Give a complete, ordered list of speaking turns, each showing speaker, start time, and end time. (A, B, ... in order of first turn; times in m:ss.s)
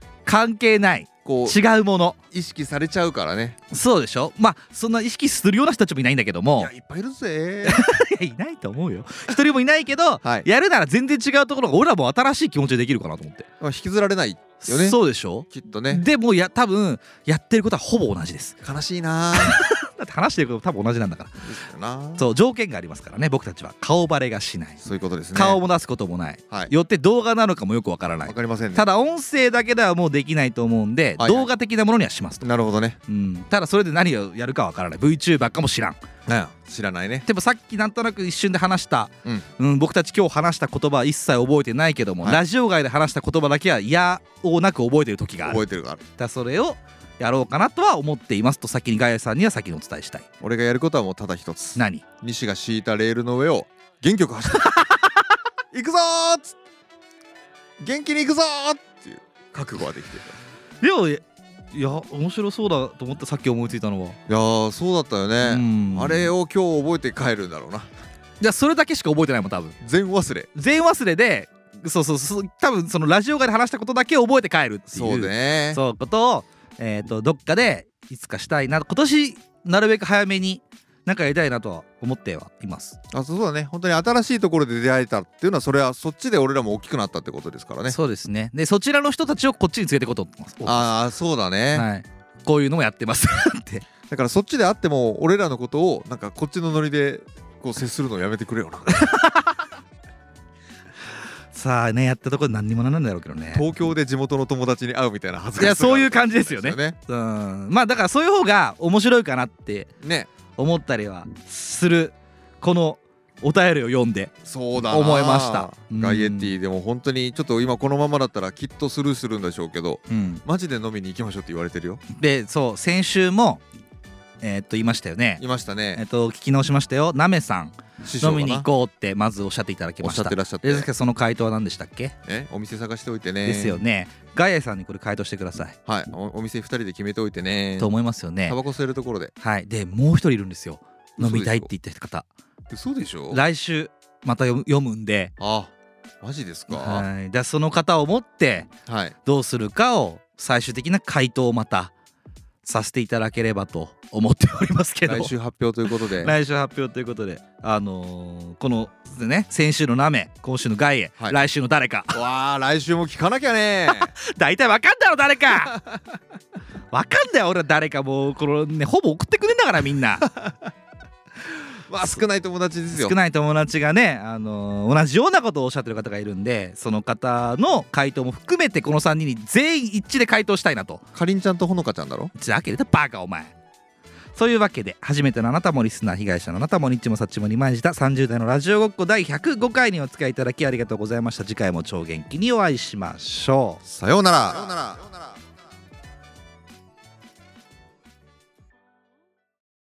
0:00.2-0:02.2 A
0:01.2-0:01.6 B
0:02.3-0:03.6 B
0:03.7-0:06.7 A
0:06.6-0:07.9 B
0:07.6-0:13.5 A
0:13.6-0:15.0 B
0:14.6-0:18.6 A
0:15.5-0:16.0 B
0:18.6-0:19.6 B
0:19.3-0:21.4 A
0:21.4-0:22.2 B
0:22.2-0:24.8 A
0:24.8-0:25.6 B
0:25.3-0:32.4 A
0:28.2-0:28.8 B
0:31.2-0:31.5 B
0:32.4-0:33.0 B
0:33.1-0:36.0 A
0:36.3-0:37.2 B
0:37.2-0:45.6 A
0:45.4-0:46.0 B
0:46.2-0:50.2 A
0:50.4-0:54.8 B
0:51.8-0:52.0 A
0:54.6-0:55.0 A
0:55.7-0:56.6 B
0:57.8-1:00.4 B
1:00.8-1:04.2 A
1:04.3-1:07.9 B
1:05.4-1:06.3 A
1:08.4-1:09.8 A
1:09.8-1:10.5 B
1:10.5-1:23.0 A
1:14.9-1:15.8 B
1:23.1-1:28.0 B
1:27.9-1:30.9 A
1:30.6-1:31.9 B
1:31.7-1:33.9 A
1:34.1-1:39.1 B
1:38.9-1:39.6 A
1:41.5-1:43.6 A
1:43.5-1:47.0 B
1:45.6-1:49.9 A
1:50.0-1:50.3 B
1:50.6-1:56.5 A
1:54.4-2:02.0 B
2:00.1-2:00.4 A
2:02.1-2:03.6 A
2:04.4-2:05.4 A
2:05.4-2:06.0 B
2:06.0-2:12.1 A
2:08.0-2:08.7 B
2:10.0-2:10.9 B
2:12.2-2:13.8 B
2:13.4-2:15.8 A
2:15.8-2:17.9 B
2:17.8-2:18.6 A
2:18.4-2:19.3 B
2:19.4-2:22.2 A
2:21.2-2:21.7 B
2:22.7-2:23.4 B
2:23.3-2:25.3 A
2:25.4-2:27.1 B
2:26.7-2:28.7 A
2:28.9-2:29.1 B
2:29.2-2:31.9 A
2:32.6-2:35.3 A
2:35.0-2:36.3 B
2:36.0-2:42.2 A
2:42.1-2:44.1 B
2:43.9-2:45.8 A
2:46.9-2:50.2 A
2:50.3-2:50.5 B
2:51.9-2:53.2 B
2:52.9-3:01.0 A
3:01.1-3:02.3 B
3:02.4-3:03.5 A
3:04.3-3:13.8 A
3:13.8-3:15.2 B